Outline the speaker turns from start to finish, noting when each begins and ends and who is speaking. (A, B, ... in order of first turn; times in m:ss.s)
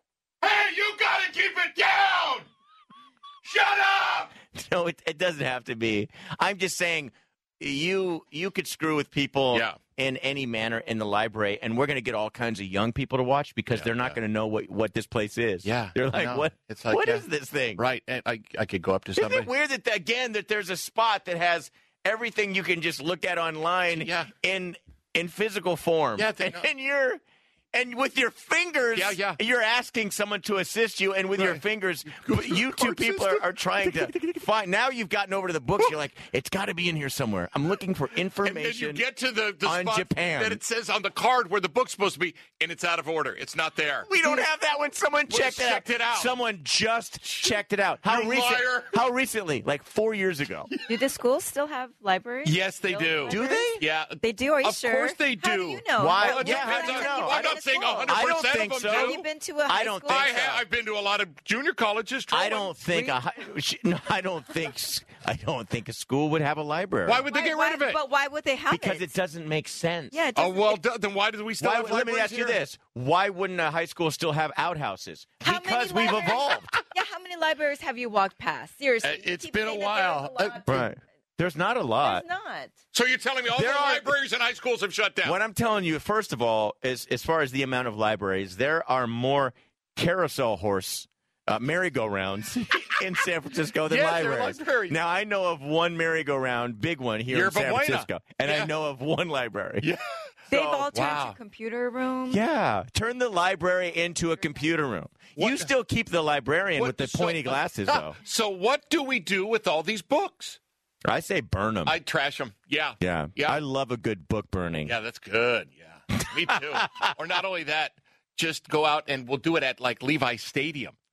0:00.4-0:02.5 A
0:03.4-0:04.3 A
0:04.5-0:17.8 B
0:09.5-0:09.8 A
0:13.7-0:14.2 A
0:15.6-0:17.2 A
0:17.8-0:19.5 A
0:19.2-0:27.2 B
0:23.9-0:24.3 A
0:26.2-0:26.7 A
0:27.7-0:39.0 B
0:28.9-0:29.4 A
0:31.4-0:34.4 A
0:38.4-0:44.3 A
0:39.6-0:40.6 B
0:44.0-0:50.7 B
0:45.3-0:46.3 A
0:47.3-0:49.0 A
0:50.9-0:58.2 C
0:52.4-0:59.2 A
0:53.3-0:53.8 B
0:56.0-1:00.6 B
0:58.8-1:00.5 C
1:00.1-1:03.1 A
1:02.3-1:07.2 B
1:07.0-1:08.0 A
1:07.3-1:09.1 C
1:08.7-1:10.2 B
1:10.1-1:10.8 C
1:10.4-1:12.6 A
1:11.6-1:16.7 B
1:15.4-1:20.9 C
1:16.1-1:16.8 A
1:19.0-1:20.6 A
1:20.6-1:22.2 B
1:22.0-1:22.7 C
1:22.9-1:25.4 A
1:23.5-1:24.1 B
1:25.2-1:39.9 B
1:33.8-1:35.0 A
1:37.3-1:38.7 A
1:40.5-1:40.9 B
1:40.5-1:42.4 C
1:40.9-1:41.4 A
1:42.3-1:48.2 B
1:45.4-1:45.7 A
1:46.8-1:50.6 A
1:51.0-1:52.0 B
1:51.8-1:53.6 A
1:53.0-1:54.9 B
1:54.8-2:01.0 A
1:56.4-1:57.1 B